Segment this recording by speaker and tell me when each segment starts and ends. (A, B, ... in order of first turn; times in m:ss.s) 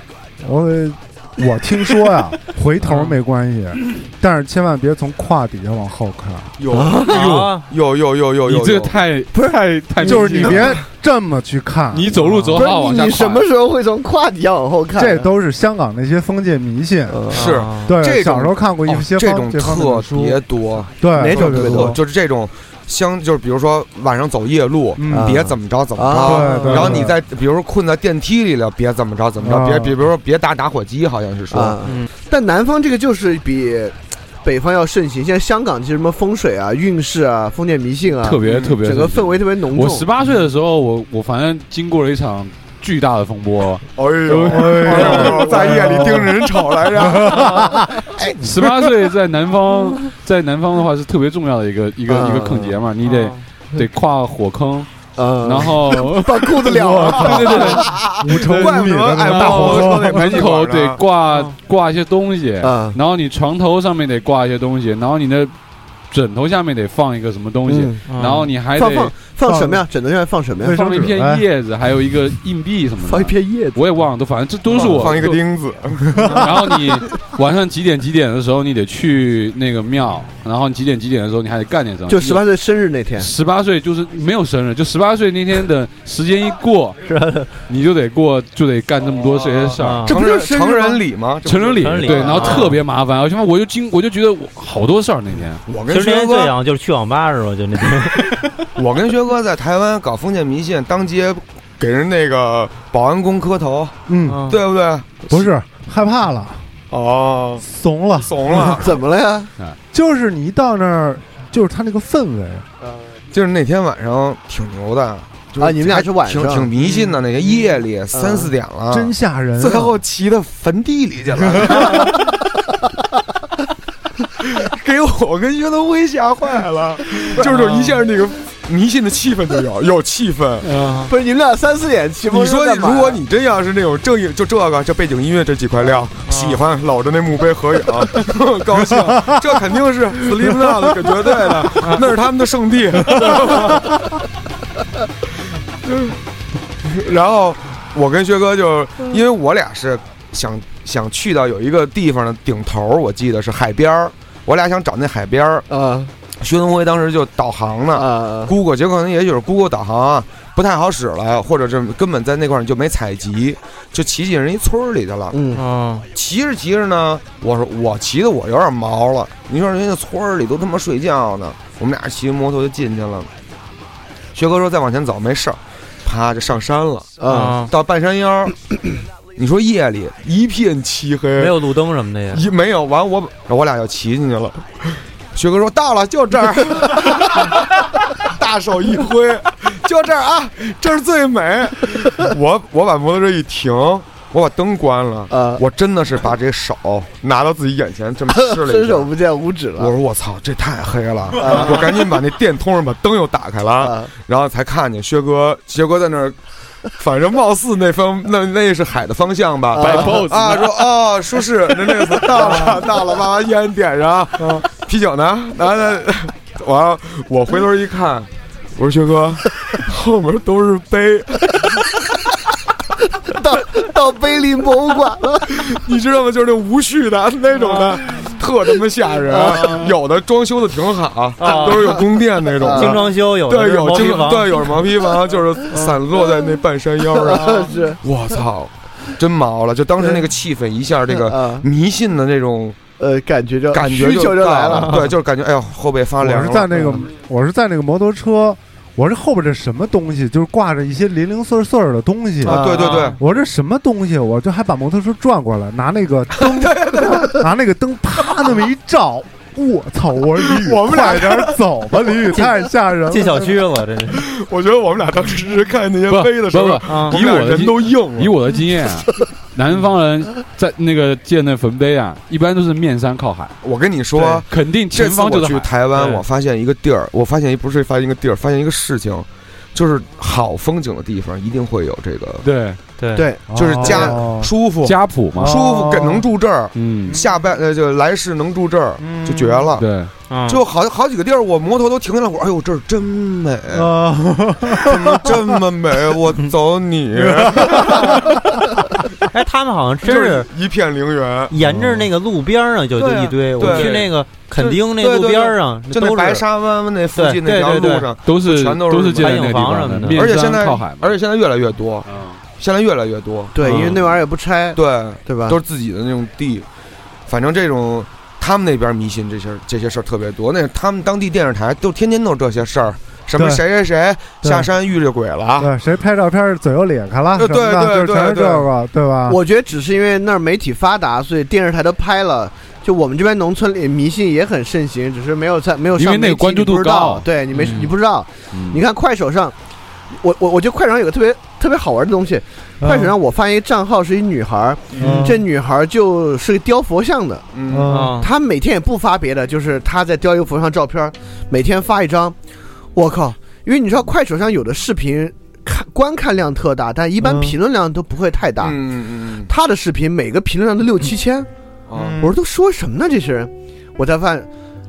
0:00.4-0:06.5 A
0:06.6-0:09.0 B
0:06.7-0:07.1 C
0:07.0-0:07.6 D
0:07.1-0:07.5 E
0:08.4-0:10.8 E
0:10.0-0:12.1 A
0:10.0-0:10.6 C
0:11.9-0:13.4 E
0:12.2-0:12.6 D
0:12.5-0:15.3 C
0:14.9-0:17.2 A
0:17.1-0:17.6 C
0:17.3-0:17.9 D
0:17.3-0:31.8 B
0:17.8-0:20.4 A
0:21.0-0:22.0 A
0:21.2-0:22.0 C
0:25.0-0:25.4 A
0:25.1-0:27.0 C
0:26.2-0:27.2 A
0:29.4-0:29.9 A
0:31.5-0:40.1 C
0:38.2-0:46.2 E
0:38.4-0:38.8 B
0:44.0-0:48.4 B
0:44.5-0:46.4 A
0:46.9-0:47.9 A
0:48.4-0:54.9 E
0:52.1-0:52.8 C
0:53.0-0:53.4 D
0:55.2-0:58.2 C
0:55.4-0:58.7 E
0:56.6-1:00.4 A
0:58.3-1:01.0 B
0:59.2-1:05.5 E
1:01.3-1:01.5 D
1:02.6-1:03.0 C
1:06.1-1:09.1 E
1:07.6-1:08.0 C
1:08.1-1:08.5 D
1:08.7-1:10.8 C
1:09.4-1:09.8 A
1:10.6-1:11.4 A
1:10.7-1:15.4 E
1:13.0-1:13.8 C
1:14.7-1:16.4 B
1:14.8-1:15.2 C
1:16.3-1:22.4 E
1:22.1-1:23.3 C
1:23.2-1:27.0 E
1:27.0-1:27.5 D
1:27.7-1:30.0 E
1:29.4-1:32.7 B
1:29.8-1:30.2 D
1:30.0-1:31.0 C
1:31.4-1:35.6 E
1:31.8-1:32.7 D
1:32.3-1:32.6 C
1:35.7-1:36.5 B
1:35.9-1:38.3 D
1:38.8-1:45.5 B
1:44.1-1:44.5 A
1:44.3-1:44.6 D
1:45.3-1:46.7 A
1:46.9-1:47.6 B
1:47.6-1:48.8 A
1:48.2-1:48.9 B
1:48.6-1:49.5 C
1:49.9-1:52.7 A
1:53.3-2:02.2 B
1:55.6-1:56.7 C
1:58.1-1:58.5 C
1:58.9-1:59.9 A
2:01.5-2:01.8 A
2:01.8-2:02.2 C
2:04.4-2:10.8 B
2:10.7-2:11.0 E
2:10.7-2:11.1 D
2:11.1-2:13.2 C
2:12.3-2:23.9 B
2:16.3-2:16.6 D
2:19.0-2:19.4 A
2:20.4-2:20.7 A
2:23.1-2:23.4 A
2:25.8-2:26.2 B
2:26.8-2:35.6 B
2:35.7-2:36.1 C
2:36.4-2:45.4 B
2:37.9-2:38.5 C
2:45.3-2:45.6 C
2:45.5-2:46.0 D
2:46.1-2:53.3 B
2:54.3-2:57.1 B
2:57.2-2:57.6 C
2:57.3-2:57.7 D
2:57.7-2:58.5 B
2:59.4-3:01.6 B
3:01.4-3:02.4 D
3:02.3-3:19.1 B
3:15.3-3:15.6 C
3:18.3-3:19.9 C
3:19.8-3:26.4 B
3:21.4-3:22.1 C
3:23.8-3:24.1 C
3:27.0-3:41.5 B
3:29.7-3:30.3 C
3:29.8-3:30.8 E
3:32.2-3:32.8 C
3:43.3-3:45.6 C
3:45.5-4:02.8 B
3:47.6-3:47.9 D
3:49.4-3:49.8 C
3:49.4-3:49.8 D
3:51.4-3:52.0 D
3:51.4-3:52.0 C
3:52.6-3:53.1 C
3:52.6-3:54.6 D
3:57.1-3:58.0 C
3:57.3-3:57.6 D
4:01.1-4:01.6 C
4:03.0-4:05.2 C
4:03.7-4:06.9 B
4:04.7-4:05.0 D
4:06.2-4:12.6 A
4:12.4-4:13.2 B
4:12.5-4:13.1 C
4:12.7-4:13.2 D
4:13.2-4:23.7 A
4:16.4-4:17.4 B
4:20.5-4:21.6 B
4:23.1-4:24.2 D
4:24.1-4:28.4 B
4:26.1-4:33.6 E
4:26.8-4:27.2 D
4:33.6-4:42.4 B
4:34.5-4:35.7 E
4:35.9-4:36.2 D
4:42.4-4:42.8 E
4:43.0-4:43.2 D
4:43.2-4:44.1 C
4:43.5-4:44.5 A
4:43.5-4:49.9 B
4:44.8-4:45.6 E
4:45.4-4:46.2 A
4:46.8-4:47.2 E
4:49.0-4:49.7 A
4:49.8-4:50.1 E
4:50.3-4:50.6 D
4:50.5-4:53.9 B
4:53.7-4:55.6 A
4:54.8-4:58.2 B
4:57.1-4:58.1 A
4:59.3-5:00.5 D
5:00.0-5:01.5 B
5:01.5-5:06.4 D
5:01.6-5:02.1 E
5:03.0-5:09.5 B
5:03.6-5:04.0 E
5:07.1-5:08.1 D
5:08.2-5:11.1 E
5:09.2-5:10.3 D
5:10.1-5:12.1 B
5:12.1-5:12.4 E
5:12.6-5:14.0 B
5:13.5-5:15.6 C
5:13.6-5:13.9 E
5:13.6-5:14.0 D
5:14.7-5:16.6 B
5:17.3-5:25.7 B
5:23.3-5:23.6 A
5:24.4-5:24.7 A
5:25.6-5:29.4 A
5:27.4-5:28.7 B
5:29.2-5:39.5 C
5:36.0-5:37.3 E
5:37.5-5:37.9 D
5:38.5-5:38.8 E
5:40.2-5:47.5 C
5:42.8-5:43.1 A
5:45.0-5:45.4 A
5:47.5-5:48.0 B
5:47.7-5:48.2 A
5:47.9-5:48.3 D
5:48.1-5:52.4 C
5:52.9-5:58.8 C
5:57.2-5:57.6 A
5:58.6-5:59.5 B
5:59.4-6:01.5 C
6:01.9-6:02.2 B
6:02.0-6:02.3 A
6:02.2-6:04.5 C